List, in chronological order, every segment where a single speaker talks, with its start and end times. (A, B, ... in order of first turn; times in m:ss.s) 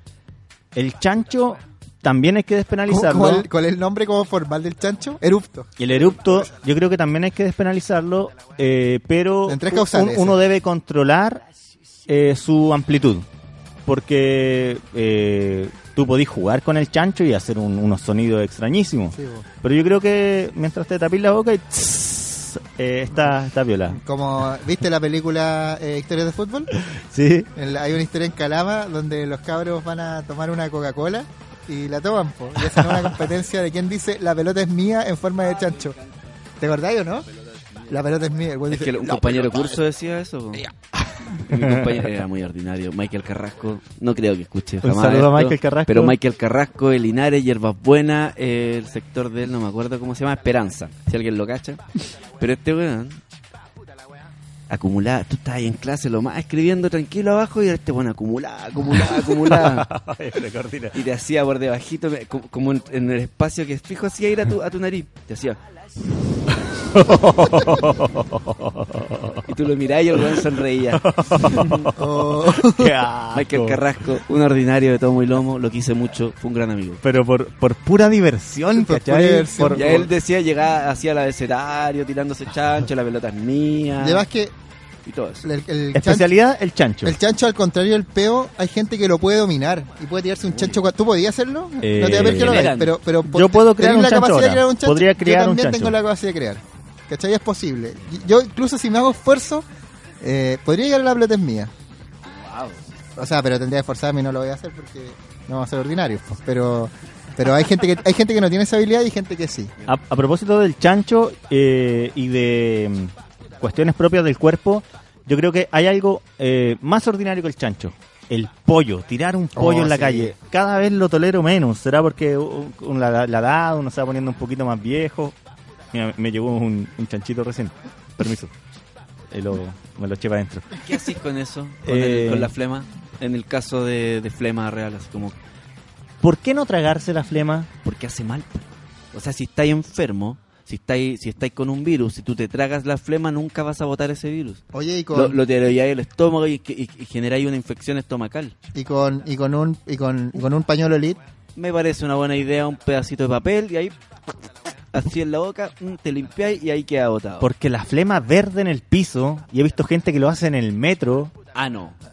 0:00.7-0:03.5 A
0:02.9-0:06.4 B
0:05.8-0:11.4 A
0:09.5-0:10.4 B
0:12.1-0:13.2 A
0:13.9-0:24.0 A
0:19.1-0:19.4 B
0:23.9-0:26.7 B
0:26.8-0:27.5 A
0:27.5-0:36.0 B
0:32.6-0:33.1 A
0:36.6-0:37.3 B
0:37.9-0:39.6 B
0:38.7-0:40.7 C
0:41.2-0:41.9 A
0:41.3-0:51.8 C
0:44.8-0:46.1 A
0:52.4-0:53.2 C
0:54.7-0:59.9 C
0:59.1-1:01.0 A
1:00.9-1:05.6 C
1:06.6-1:09.4 A
1:09.5-1:11.9 C
1:11.0-1:13.8 A
1:11.9-1:13.0 B
1:13.3-1:17.0 C
1:17.0-1:20.0 A
1:18.7-1:20.1 B
1:19.7-1:24.2 C
1:24.0-1:24.5 B
1:25.0-1:25.4 C
1:25.4-1:26.3 B
1:25.9-1:27.2 A
1:27.0-1:39.6 B
1:30.5-1:30.8 C
1:31.8-1:32.7 A
1:32.0-1:33.0 C
1:33.2-1:36.0 A
1:40.2-1:41.7 B
1:42.3-1:42.8 C
1:43.2-1:49.7 B
1:49.9-2:05.3 A
1:59.5-2:00.3 B
2:05.9-2:08.5 A
2:09.3-2:10.8 A
2:10.8-2:15.3 C
2:11.8-2:12.5 A
2:16.2-2:17.7 A
2:17.8-2:24.6 C
2:24.7-2:25.4 B
2:25.1-2:28.5 C
2:28.7-2:31.2 B
2:31.6-2:34.0 C
2:34.9-2:37.5 C
2:37.4-2:41.3 A
2:41.5-2:42.0 C